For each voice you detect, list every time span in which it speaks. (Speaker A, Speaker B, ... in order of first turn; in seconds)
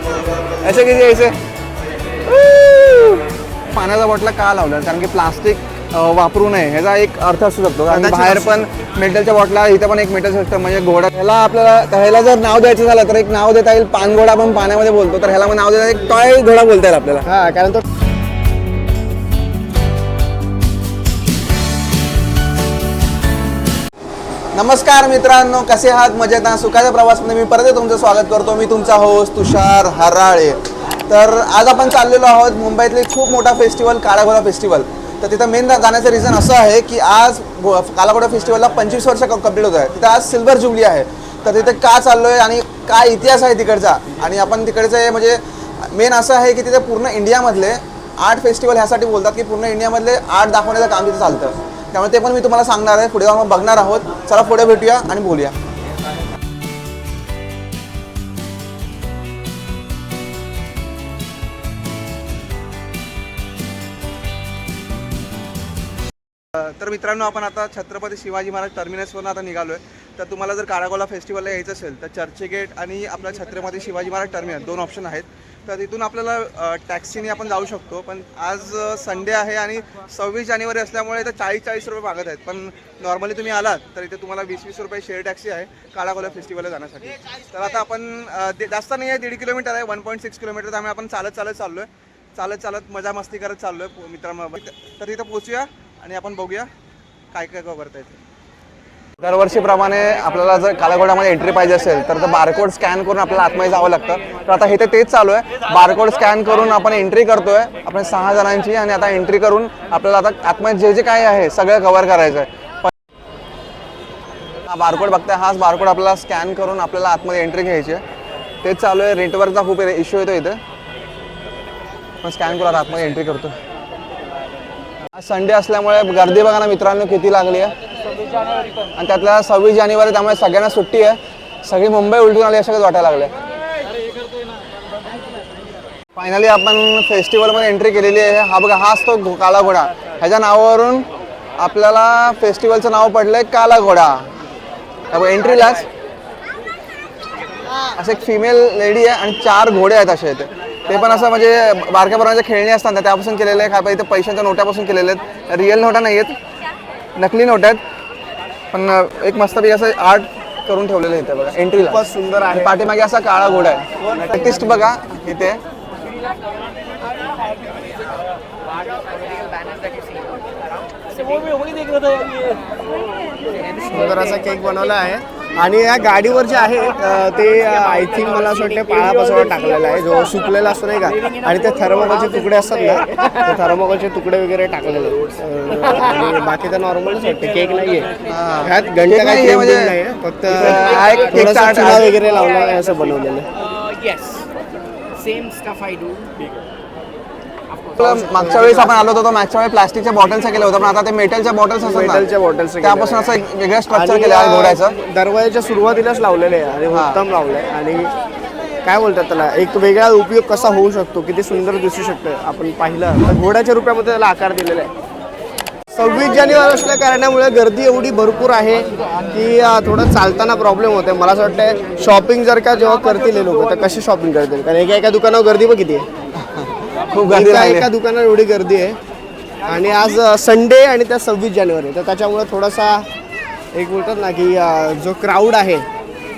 Speaker A: 0.6-1.4, 2.3-17.3, 24.5-55.5, 66.5-96.7, 97.3-98.2, 99.2-112.9, 114.7-118.0, 118.6-120.6, 122.2-123.5, 125.2-127.7, 129.0-133.3, 136.2-141.1, 141.6-144.3, 145.1-145.9, 147.9-156.3, 157.2-157.8, 158.7-165.6, 188.2-189.9, 190.5-192.1, 198.0-202.2, 202.8-205.0, 206.9-207.2, 226.5-227.9
Speaker B: 7.9-8.6, 17.2-17.8, 161.8-162.8, 163.4-164.9, 173.8-188.1, 188.6-193.5, 198.0-199.0, 201.8-208.1, 208.8-214.9, 215.9-226.1, 227.3-229.0, 229.7-233.1, 233.7-235.8
Speaker C: 169.4-170.1, 193.8-194.5, 195.2-196.3